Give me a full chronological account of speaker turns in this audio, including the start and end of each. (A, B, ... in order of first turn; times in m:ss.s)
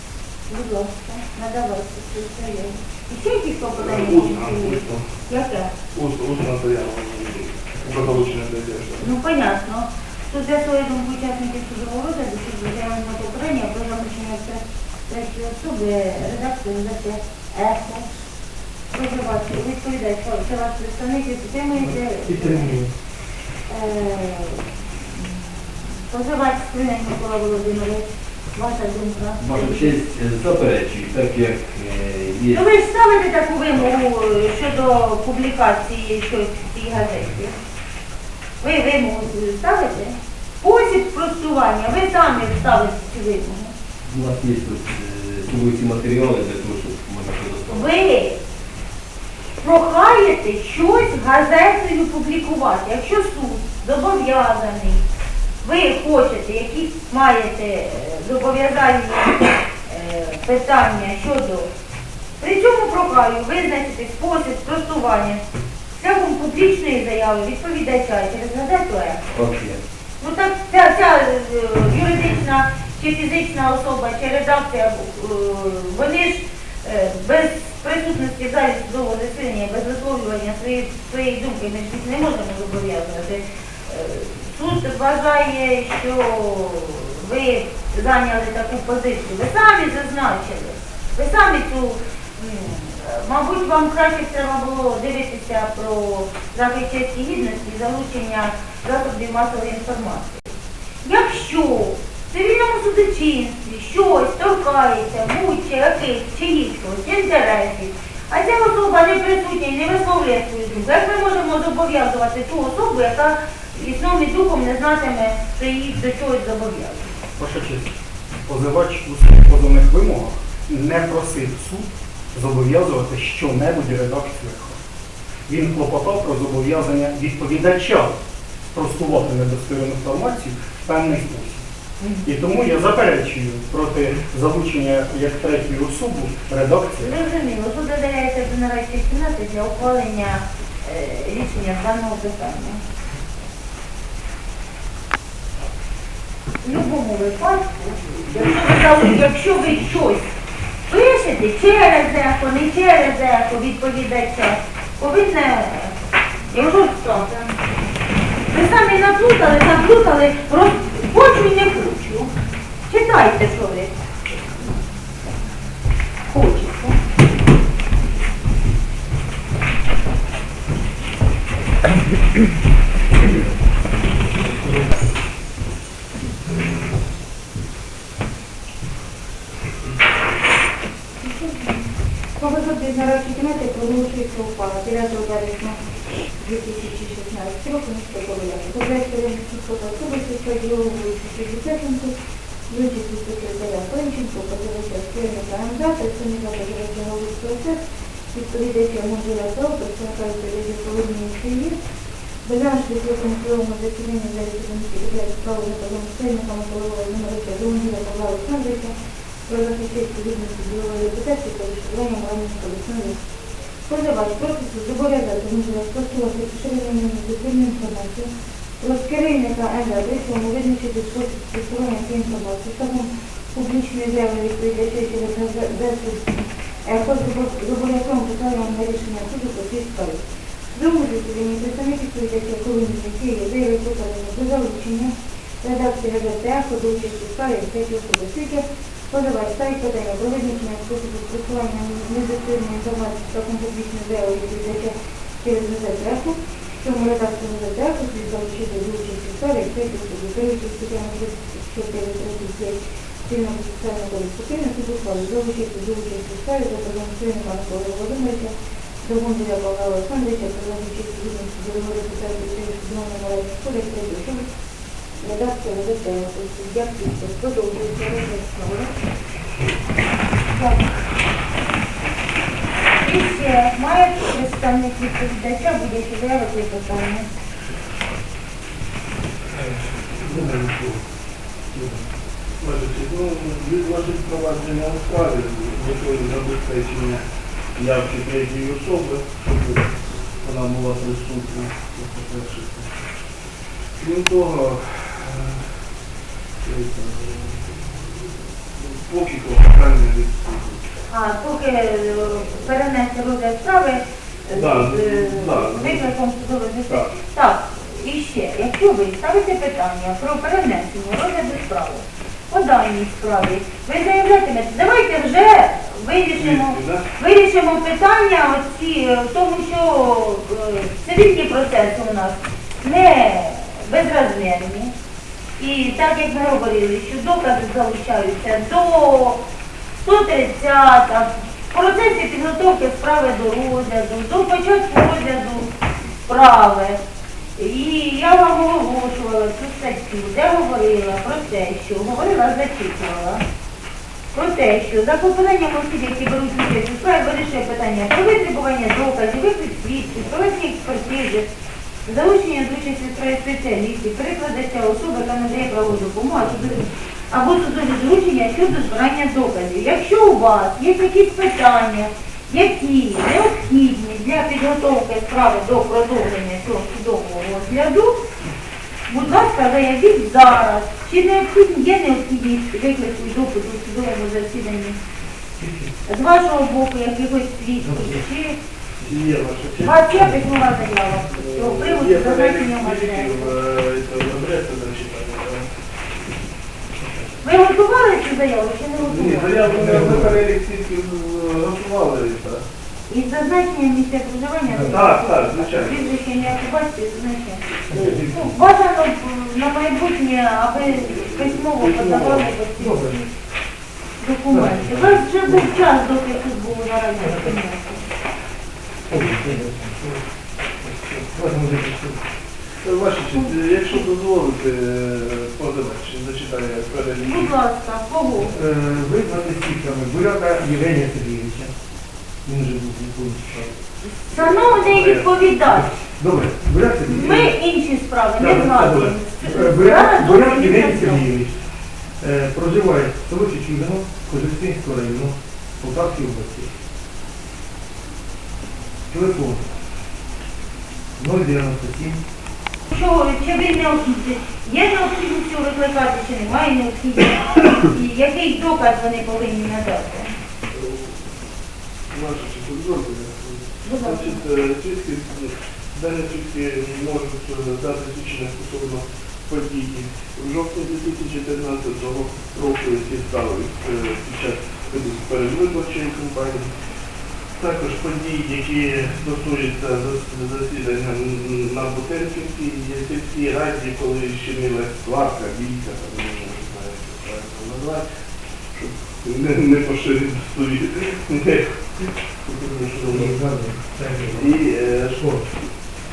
0:00.5-0:05.7 A
0:03.8-0:05.1 B
0:05.9-0:09.1 B
0:09.0-0:18.1 A
0:18.9-0:22.8 A
0:21.8-0:22.9 C
0:23.7-0:30.0 A
0:29.4-0:32.7 D
0:32.5-0:37.6 A
0:38.6-0:43.7 A
0:44.1-0:47.9 D
0:47.7-0:48.4 A
0:49.6-0:55.0 A
0:55.6-1:01.7 A
1:02.4-1:05.4 A
1:06.0-1:09.2 A
1:09.3-1:09.8 D
1:10.2-1:57.1 A
1:57.4-2:04.8 E
2:05.5-2:08.2 E
2:08.7-2:11.7 E
2:12.0-2:12.3 A
2:12.2-2:17.1 E
2:17.0-2:22.8 A
2:26.6-2:30.4 A
2:30.9-2:36.0 A
2:36.5-2:37.5 A
2:38.5-2:42.3 A
2:42.9-2:44.0 A
2:46.3-2:47.0 A
3:01.2-3:01.8 A
3:02.4-3:05.8 A
3:06.4-3:12.1 A
3:12.7-3:17.8 A
3:18.3-3:21.8 A
3:22.4-3:28.9 A
3:29.5-3:33.2 A
3:33.9-3:38.3 A
3:38.8-3:50.2 A
3:50.7-4:24.5 A
4:25.2-4:29.0 A
4:30.5-4:30.8 A
4:33.0-4:37.3 A
4:39.5-4:40.8 C
4:40.2-4:41.0 B
4:41.7-4:42.1 C
4:42.6-4:47.2 B
4:47.8-4:49.9 B
4:50.4-4:53.0 B
4:54.0-4:55.7 B
4:56.6-4:58.2 B
4:58.8-5:00.8 B
5:01.1-5:24.9 A
5:04.5-5:06.0 B
5:16.4-5:17.1 B
5:25.6-5:29.4 A
5:30.0-5:35.7 A
5:36.3-5:37.0 A
5:37.6-5:43.4 A
5:44.3-5:51.5 A
5:52.1-6:08.2 A
6:09.1-6:15.0 A
6:15.6-6:15.9 C
6:16.1-6:18.6 A
6:17.8-6:18.2 C
6:19.0-6:20.4 B
6:19.8-6:23.5 A
6:21.3-6:25.7 B
6:27.0-6:27.3 C
6:27.4-6:30.1 A
6:29.0-6:32.6 B
6:29.7-6:30.4 C
6:33.1-6:43.1 A
6:34.7-6:35.0 C
6:34.8-6:36.2 B
6:37.9-6:38.5 C
6:37.9-6:38.2 B
6:41.1-6:42.5 B
6:42.8-6:43.3 C
6:44.2-6:48.0 A
6:44.5-6:45.7 C
6:49.1-6:50.2 C
6:50.9-6:51.3 B
6:51.3-6:52.2 C
6:52.8-6:57.5 B
6:53.3-6:54.0 A
6:57.2-6:58.6 A
6:58.5-7:01.7 E
7:02.4-7:03.8 C
7:04.2-7:06.0 A
7:04.4-7:05.4 B
7:06.0-7:07.6 C
7:07.1-7:11.3 A
7:08.4-7:09.1 C
7:08.8-7:11.5 E
7:12.2-7:16.7 C
7:19.1-7:19.7 C
7:21.2-7:22.2 C
7:22.9-7:30.3 A
7:30.7-7:31.2 B
7:32.1-7:46.7 B
7:33.8-7:34.4 A
7:47.6-7:58.0 B
7:58.7-8:03.4 B
8:03.1-8:04.6 C
8:04.3-8:05.4 B
8:05.1-8:05.5 C